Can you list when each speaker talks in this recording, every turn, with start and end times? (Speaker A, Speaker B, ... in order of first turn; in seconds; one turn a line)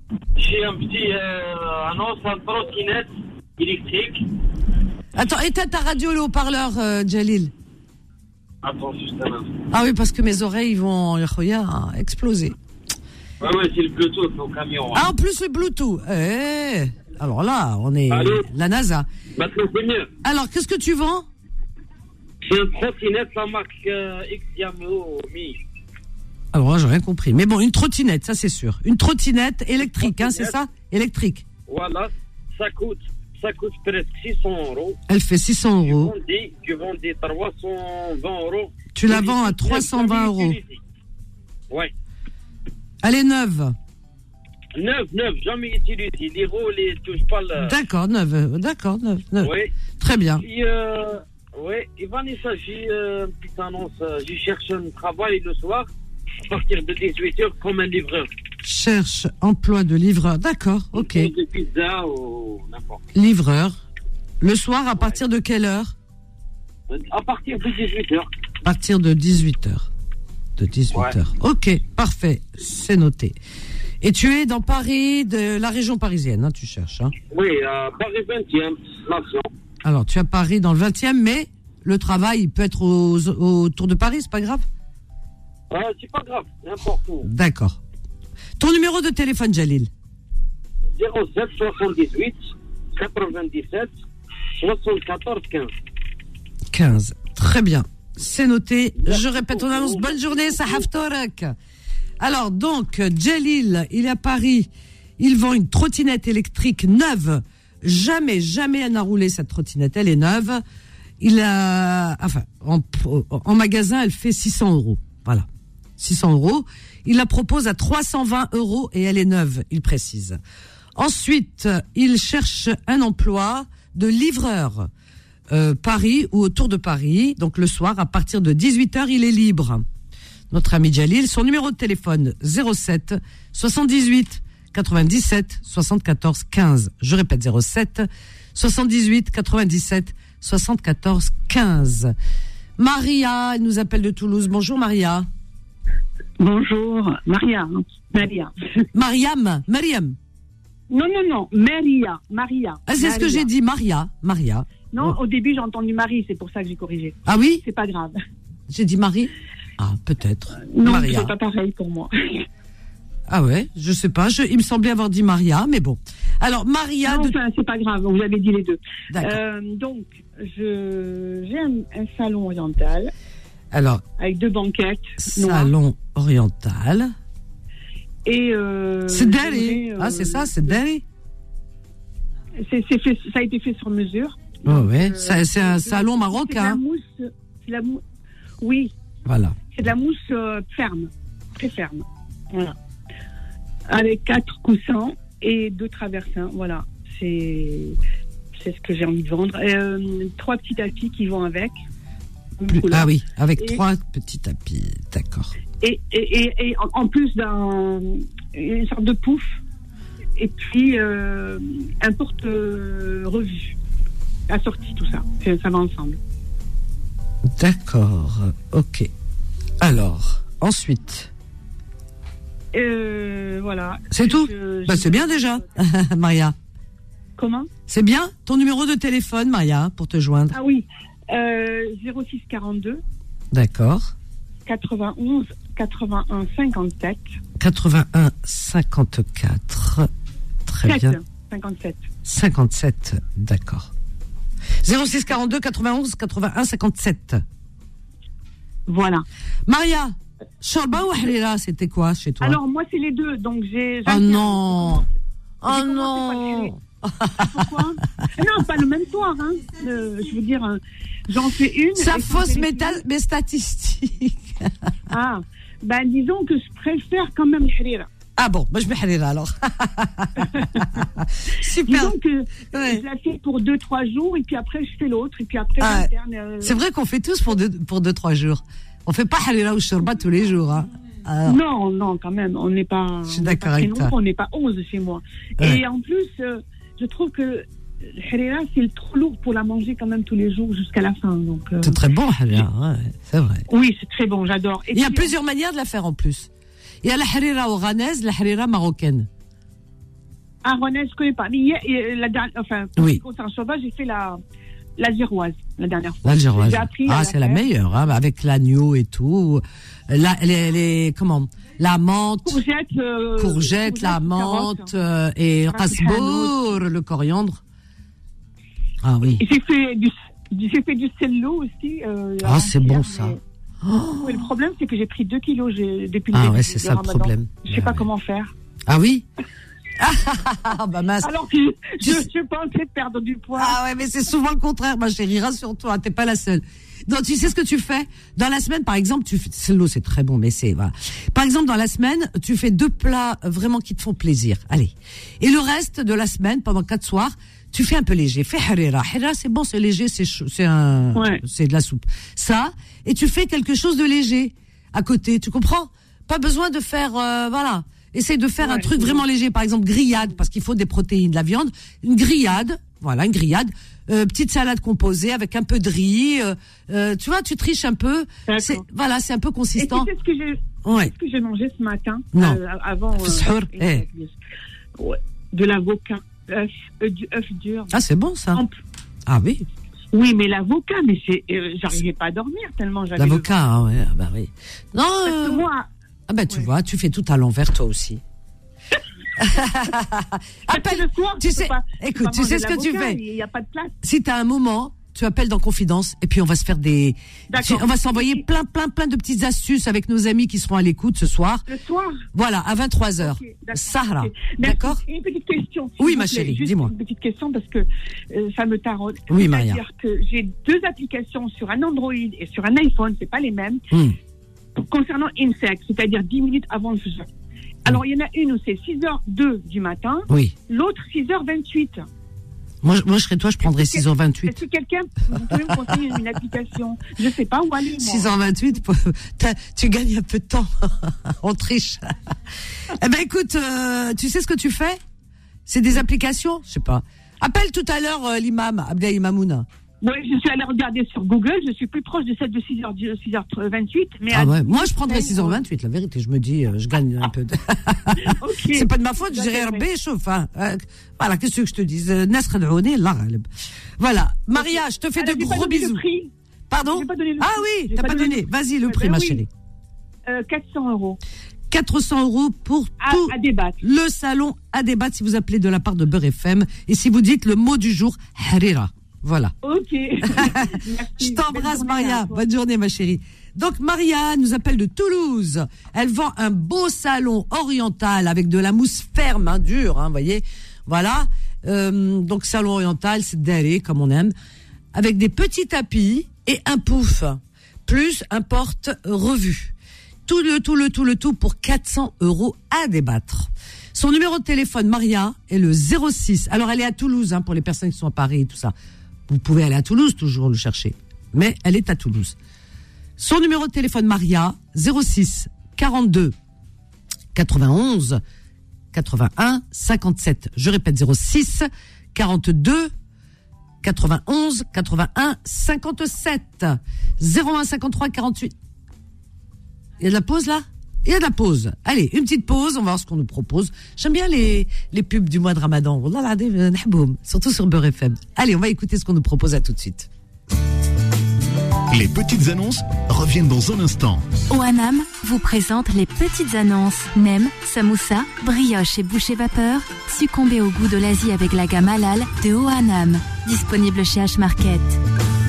Speaker A: 0.3-4.3
Speaker B: 5.1-7.5
Speaker A: 8.6-9.6
Speaker B: 9.7-12.5
Speaker A: 13.4-15.1
Speaker B: 14.9-19.1
Speaker A: 18.1-18.5
Speaker A: 19.3-20.1
Speaker B: 20.2-21.2
Speaker A: 22.4-25.6
Speaker B: 26.5-31.4
Speaker A: 29.8-30.6
Speaker A: 31.6-35.0
Speaker B: 35.1-36.1
Speaker A: 35.8-40.8
Speaker B: 38.9-40.6
Speaker B: 43.0-43.8
Speaker A: 44.7-47.8
Speaker B: 47.6-50.4
Speaker A: 49.4-49.7
Speaker A: 50.4-55.9
Speaker A: 56.4-58.3
Speaker B: 58.6-61.3
Speaker A: 60.9-63.1
Speaker B: 63.1-63.8
Speaker B: 64.4-65.9
Speaker A: 66.9-68.3
Speaker B: 68.6-69.9
Speaker B: 70.6-73.4
Speaker A: 70.9-71.2
Speaker B: 74.0-77.1
Speaker A: 77.3-79.5
Speaker B: 79.8-84.7
Speaker A: 85.7-87.3
Speaker B: 87.2-87.8
Speaker B: 88.6-89.9
Speaker A: 91.0-93.9
Speaker A: 94.6-95.7
Speaker B: 96.7-101.5
Speaker A: 99.0-100.9
Speaker B: 102.2-110.6
Speaker B: 111.2-115.5
Speaker B: 116.0-120.4
Speaker B: 121.0-124.9
Speaker B: 125.5-129.8
Speaker B: 130.5-142.1
Speaker B: 142.8-145.3
Speaker C: 146.4-148.8
Speaker B: 148.9-150.2
Speaker C: 150.9-153.5
Speaker B: 152.9-155.2
Speaker C: 154.9-158.2
Speaker B: 157.2-157.6
Speaker B: 158.7-161.3
Speaker C: 160.7-162.4
Speaker B: 163.3-167.4
Speaker C: 167.0-173.1
Speaker B: 169.1-169.4
Speaker B: 173.7-174.0
Speaker C: 174.2-175.7
Speaker B: 175.2-177.1
Speaker C: 178.2-180.8
Speaker B: 179.1-181.0
Speaker C: 182.6-188.0
Speaker B: 184.6-186.8
Speaker C: 188.6-188.9
Speaker B: 189.2-189.6
Speaker C: 189.7-192.7
Speaker C: 193.9-198.0
Speaker C: 198.5-201.8
Speaker C: 202.6-203.8
Speaker B: 202.7-205.5
Speaker C: 205.8-209.6
Speaker C: 210.4-213.8
Speaker C: 214.5-216.2
Speaker B: 217.5-219.1
Speaker B: 219.8-221.3
Speaker C: 222.7-225.6
Speaker B: 224.1-226.6
Speaker C: 227.4-227.7
Speaker B: 227.9-230.6
Speaker C: 230.5-233.0
Speaker B: 233.5-234.1
Speaker C: 234.7-237.3
Speaker B: 237.6-240.1
Speaker B: 240.7-241.2
Speaker C: 240.8-242.1
Speaker B: 242.2-243.9
Speaker B: 244.8-247.4
Speaker C: 248.9-249.2
Speaker B: 249.7-252.6
Speaker C: 252.4-255.1
Speaker B: 254.1-255.0
Speaker B: 255.6-257.7
Speaker C: 255.7-256.7
Speaker C: 257.3-263.0
Speaker B: 261.9-264.7
Speaker C: 265.1-268.1
Speaker B: 268.4-272.1
Speaker C: 270.5-270.8
Speaker C: 271.8-276.8
Speaker B: 272.7-273.0
Speaker B: 275.8-276.1
Speaker B: 276.6-281.6
Speaker C: 281.4-292.0
Speaker B: 283.3-284.1
Speaker B: 291.8-293.6
Speaker C: 293.7-295.3
Speaker B: 294.9-296.5
Speaker B: 297.0-299.3
Speaker C: 300.6-304.4
Speaker C: 305.0-307.6
Speaker B: 306.2-312.6
Speaker C: 312.4-314.9
Speaker B: 313.4-317.6
Speaker C: 315.7-316.7
Speaker B: 319.0-319.4
Speaker C: 319.4-323.4
Speaker B: 322.4-324.4
Speaker C: 324.2-328.5
Speaker B: 326.3-328.0
Speaker B: 328.9-329.2
Speaker B: 330.0-331.3
Speaker C: 331.2-333.8
Speaker B: 332.0-332.2
Speaker B: 333.6-370.1
Speaker C: 351.1-351.4
Speaker C: 358.6-359.2
Speaker C: 368.5-368.8
Speaker C: 369.8-374.4
Speaker B: 370.8-371.1
Speaker B: 372.3-372.6
Speaker B: 373.1-374.0
Speaker C: 375.0-378.0
Speaker B: 377.9-378.6
Speaker C: 378.5-378.8
Speaker B: 379.3-379.6
Speaker C: 380.1-383.6
Speaker B: 383.1-385.6
Speaker C: 385.2-385.9
Speaker B: 386.3-388.2
Speaker B: 389.4-393.2
Speaker C: 390.7-393.9
Speaker B: 394.0-401.6
Speaker C: 397.5-398.4
Speaker C: 401.7-402.2
Speaker B: 402.3-405.0
Speaker C: 403.2-413.9
Speaker B: 406.0-406.9
Speaker B: 409.3-409.8
Speaker B: 413.9-414.1
Speaker C: 414.8-417.3
Speaker C: 417.8-422.1
Speaker B: 420.3-420.5
Speaker B: 422.8-424.6
Speaker C: 423.6-428.3
Speaker B: 428.0-432.1
Speaker B: 432.9-435.0
Speaker B: 435.7-439.6
Speaker C: 440.0-445.6
Speaker B: 444.3-453.5
Speaker C: 448.2-449.8
Speaker B: 454.0-456.0
Speaker C: 454.5-456.3
Speaker B: 456.7-459.5
Speaker C: 456.9-459.4
Speaker C: 460.2-461.2
Speaker B: 461.7-469.5
Speaker C: 463.0-463.8
Speaker C: 469.6-472.4
Speaker B: 470.2-484.3
Speaker B: 484.9-489.7
Speaker B: 490.2-498.7
Speaker B: 499.3-502.4
Speaker B: 503.2-506.3
Speaker B: 507.3-508.2
Speaker B: 508.9-512.9
Speaker B: 513.8-518.5
Speaker B: 520.0-530.1
Speaker D: 531.9-534.3
Speaker E: 534.5-545.0